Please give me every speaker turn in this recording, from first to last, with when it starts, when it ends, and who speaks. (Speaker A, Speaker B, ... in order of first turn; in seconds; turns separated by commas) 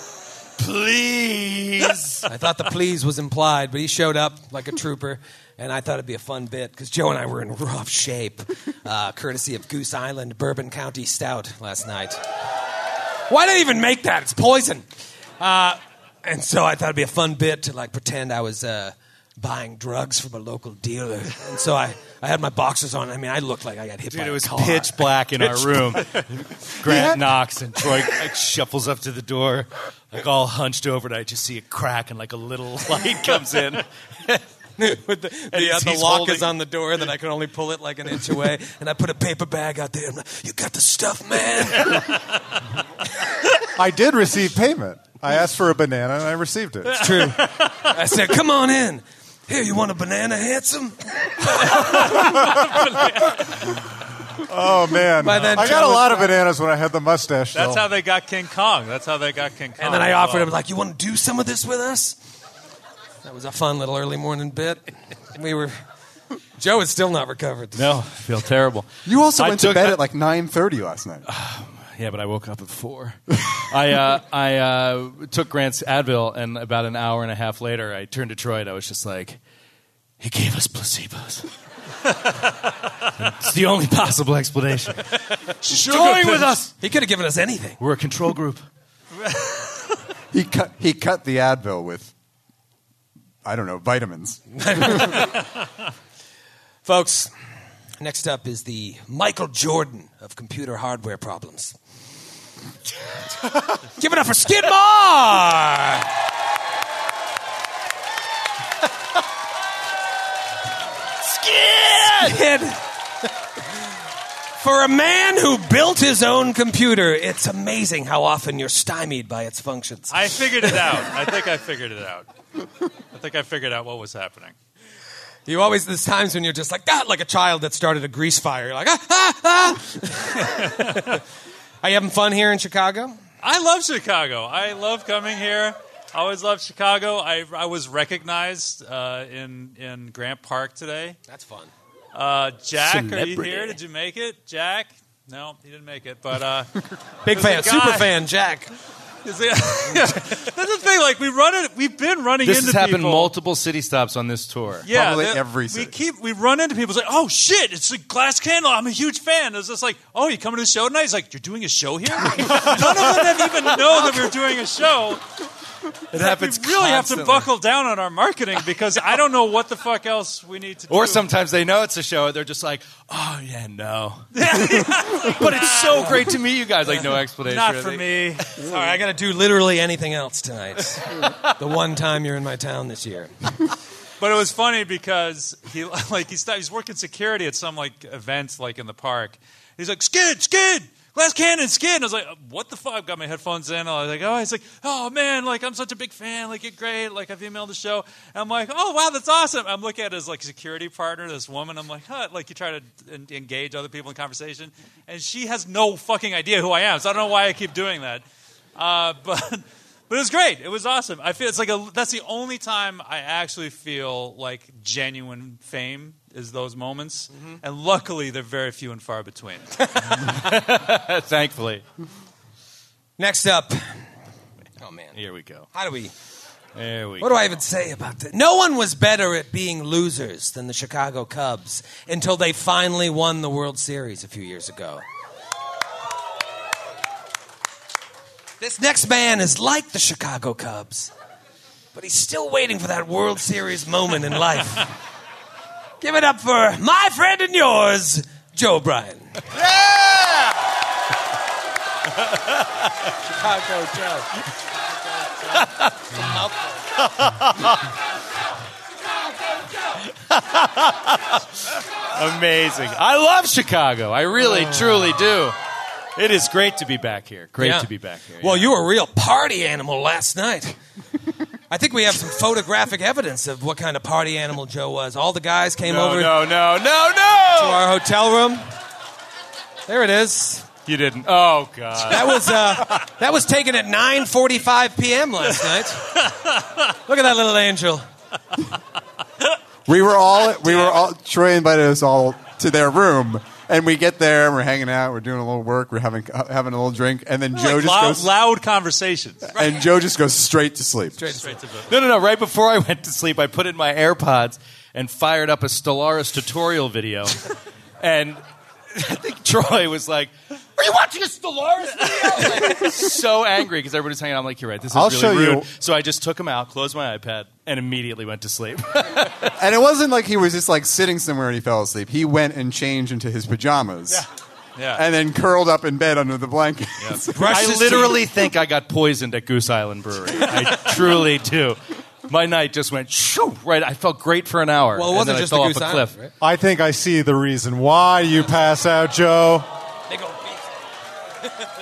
Speaker A: 0.6-2.3, Speaker B: 2.2-12.2, Speaker B: 13.3-14.8, Speaker B: 15.4-26.0, Speaker A: 24.1-34.4, Speaker C: 26.8-27.2, Speaker B: 34.8-42.2, Speaker A: 35.5-36.5, Speaker C: 43.7-47.2, Speaker B: 46.9-52.8, Speaker D: 47.1-47.5, Speaker D: 52.1-53.4, Speaker C: 52.4-52.6, Speaker C: 54.4-57.8, Speaker B: 55.2-56.3, Speaker D: 57.5-60.5, Speaker B: 59.8-62.2, Speaker B: 63.2-65.8, Speaker B: 66.6-68.0, Speaker A: 67.8-70.0, Speaker E: 69.0-71.3, Speaker A: 71.3-79.4, Speaker A: 80.2-81.5, Speaker A: 83.2-85.1, Speaker B: 85.7-87.8, Speaker A: 85.7-86.7, Speaker D: 86.0-86.5, Speaker A: 87.8-88.6, Speaker E: 90.3-92.1, Speaker E: 93.4-95.2, Speaker B: 94.5-95.5, Speaker B: 96.8-97.3, Speaker B: 98.0-101.8, Speaker B: 103.8-106.1, Speaker A: 111.2-112.3, Speaker B: 112.0-112.8, Speaker B: 114.6-120.2, Speaker D: 120.1-122.3, Speaker D: 123.1-124.5, Speaker B: 125.5-131.2, Speaker D: 130.6-131.1, Speaker B: 131.8-133.2, Speaker D: 133.4-141.2, Speaker B: 141.3-141.7, Speaker D: 142.1-148.1, Speaker A: 142.8-143.8, Speaker B: 147.2-148.7, Speaker D: 149.2-153.3, Speaker A: 152.4-154.9, Speaker D: 154.8-165.2, Speaker E: 154.9-155.9, Speaker A: 166.1-167.5, Speaker D: 166.1-171.3, Speaker A: 170.9-178.1, Speaker D: 174.3-176.3, Speaker D: 177.4-178.5, Speaker B: 178.6-183.3, Speaker D: 184.2-208.2, Speaker D: 208.8-220.3, Speaker B: 217.3-217.6, Speaker A: 220.1-221.8, Speaker B: 223.2-224.0, Speaker B: 224.8-225.2, Speaker A: 225.1-225.7, Speaker B: 225.7-226.1, Speaker A: 226.7-227.4, Speaker B: 227.2-235.0, Speaker B: 238.6-241.1, Speaker B: 241.9-244.9, Speaker B: 246.0-249.5, Speaker A: 249.8-250.4, Speaker B: 253.3-254.3, Speaker A: 255.6-256.1, Speaker B: 256.1-256.6, Speaker A: 257.0-257.8, Speaker A: 260.1-261.4, Speaker A: 262.1-265.6, Speaker A: 266.1-268.7, Speaker B: 267.6-267.9, Speaker B: 268.4-270.8, Speaker B: 271.7-276.5, Speaker A: 275.8-277.8, Speaker B: 277.5-278.7, Speaker B: 279.9-280.7, Speaker A: 280.9-282.9, Speaker B: 282.0-286.3, Speaker B: 286.9-288.1, Speaker E: 289.9-298.3, Speaker B: 290.6-290.9, Speaker D: 297.5-299.5, Speaker E: 299.5-301.3, Speaker B: 299.5-299.9, Speaker B: 301.2-301.7, Speaker D: 301.4-301.9, Speaker A: 301.9-308.4, Speaker A: 308.9-319.5, Speaker C: 314.9-315.7, Speaker E: 319.5-324.2, Speaker D: 324.8-325.0, Speaker E: 324.9-327.6, Speaker A: 327.0-336.1, Speaker B: 327.3-328.2, Speaker B: 334.9-336.3, Speaker C: 336.4-339.7, Speaker B: 340.1-340.6